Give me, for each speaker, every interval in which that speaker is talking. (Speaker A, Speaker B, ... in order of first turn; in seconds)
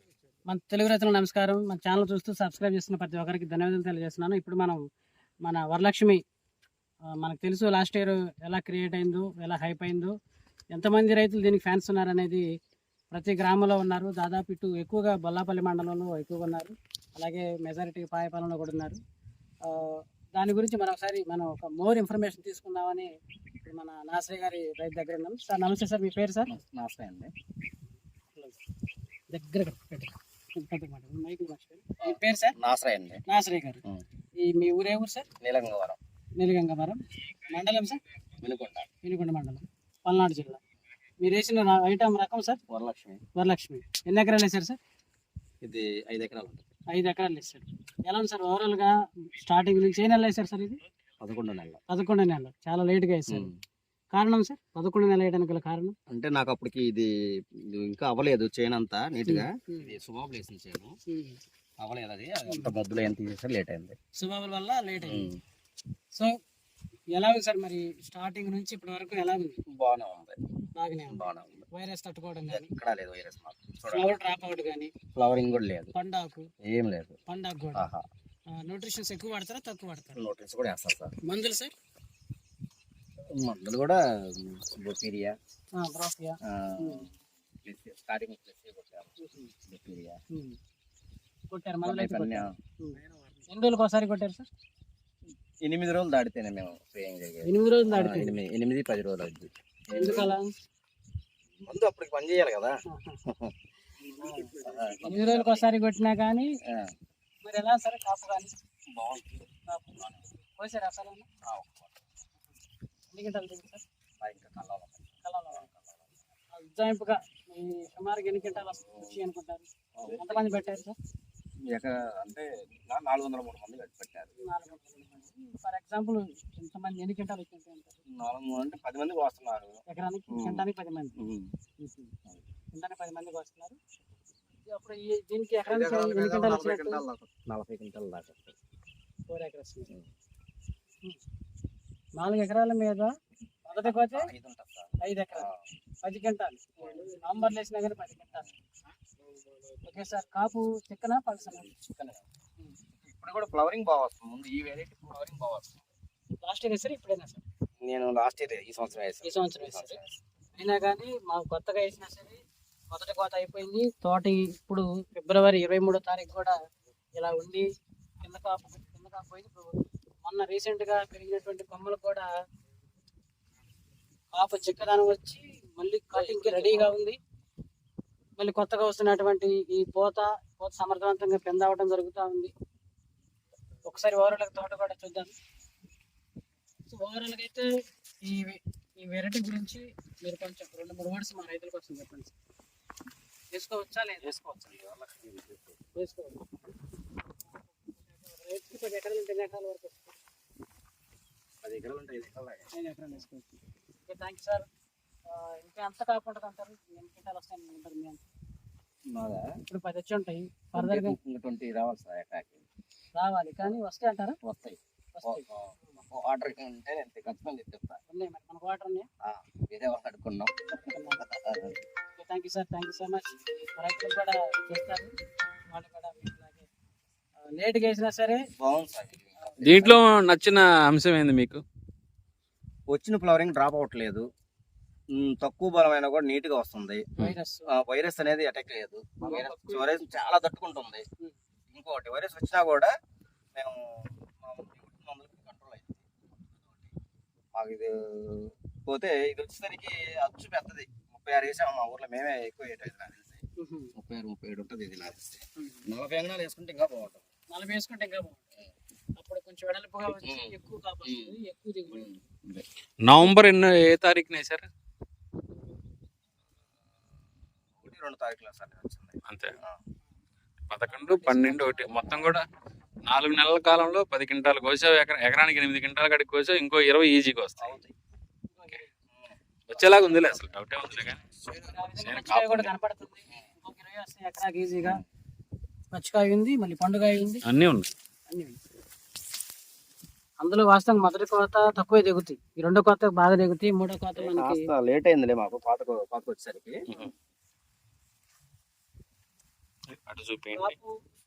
Speaker A: 0.5-4.8, 5.4-6.2, 7.2-10.1, 10.7-12.4, 13.1-19.0, 19.6-23.1, 23.6-26.5, 28.3-28.6, 29.3-32.5, 33.3-33.8, 34.4-35.3, 36.4-38.0, 39.0-40.6, 41.2-42.6, 43.4-44.8, 46.9-50.8, 51.9-53.5, 54.1-55.9, 59.2-59.9, 61.1-61.4, 62.5-62.7, 64.2-65.3, 67.1-69.6, 70.8-72.7, 73.9-74.9, 75.9-76.5, 77.3-77.8, 78.5-80.2, 81.2-81.7, 85.8-87.1, 89.2-89.5, 90.3-90.6, 91.5-94.5, 97.4-98.4, 99.9-100.5, 102.9-103.2, 104.1-104.5, 105.0-106.5, 107.4-108.5, 109.7-111.3, 113.1-113.8, 115.2-115.7, 116.5-120.9, 124.4-128.0, 129.9-131.1, 131.8-132.1, 132.7-133.8, 134.7-137.0, 139.3-139.9, 142.2-143.1, 143.7-144.3, 145.0-145.5, 146.0-148.4, 149.8-151.7, 156.4-157.4, 159.2-160.0, 160.5-162.4, 162.9-166.6, 167.2-167.7, 168.2-172.3, 174.3-177.2, 178.4-182.5, 183.8-185.3, 186.9-187.7, 188.2-192.3, 193.5-194.6, 195.9-196.4, 197.5-200.1, 202.7-204.7, 205.3-208.2, 209.7-211.2, 213.2-214.4, 215.1-216.0, 218.1-219.1, 220.9-221.2, 222.2-225.1, 225.7-226.7, 227.4-228.4, 229.4-229.8, 237.2-237.7, 239.2-239.9, 253.6-253.9, 255.6-255.8, 257.5-258.4, 259.2-262.1, 270.9-272.2, 278.5-278.9, 281.5-285.0, 285.9-287.4, 288.3-288.6, 290.4-294.7, 300.6-300.9
Speaker B: 26.5-27.3, 32.0-33.2, 35.4-36.0, 38.4-38.9, 42.7-43.2, 45.6-46.6, 51.2-51.8, 53.3-53.6, 56.1-61.0, 61.8-64.0, 65.0-65.4, 69.7-70.4, 71.1-71.7, 72.5-74.1, 75.1-75.9, 76.6-77.2, 77.7-78.0, 80.2-81.1, 83.3-85.3, 86.4-89.1, 89.6-90.2, 91.8-92.5, 95.6-100.3, 101.6-102.7, 103.3-103.5, 104.2-105.7, 106.7-106.9, 108.9-110.2, 111.5-112.0, 114.2-116.2, 118.8-119.2, 120.0-120.8, 121.7-124.3, 128.1-130.6, 131.2-131.5, 135.6-138.6, 143.8-145.7, 146.8-147.1, 151.5-152.3, 153.0-155.9, 157.8-160.2, 176.1-176.9, 194.2-195.8, 201.6-202.7, 209.1-209.5, 210.7-212.7, 214.4-218.0, 219.2-221.8, 228.6-230.0, 232.9-234.2, 235.1-237.1, 237.7-241.0, 241.7-242.9, 243.5-246.9, 247.5-253.4, 253.9-257.2, 260.2-260.5, 261.0-261.3, 261.9-262.6, 267.8-269.8, 277.6-277.9, 279.1-281.7, 294.1-296.9
Speaker C: 229.6-231.6, 263.0-264.7, 269.3-269.6, 270.7-272.4, 273.1-277.8, 279.7-281.2, 281.8-282.7, 287.4-287.9, 299.9-300.8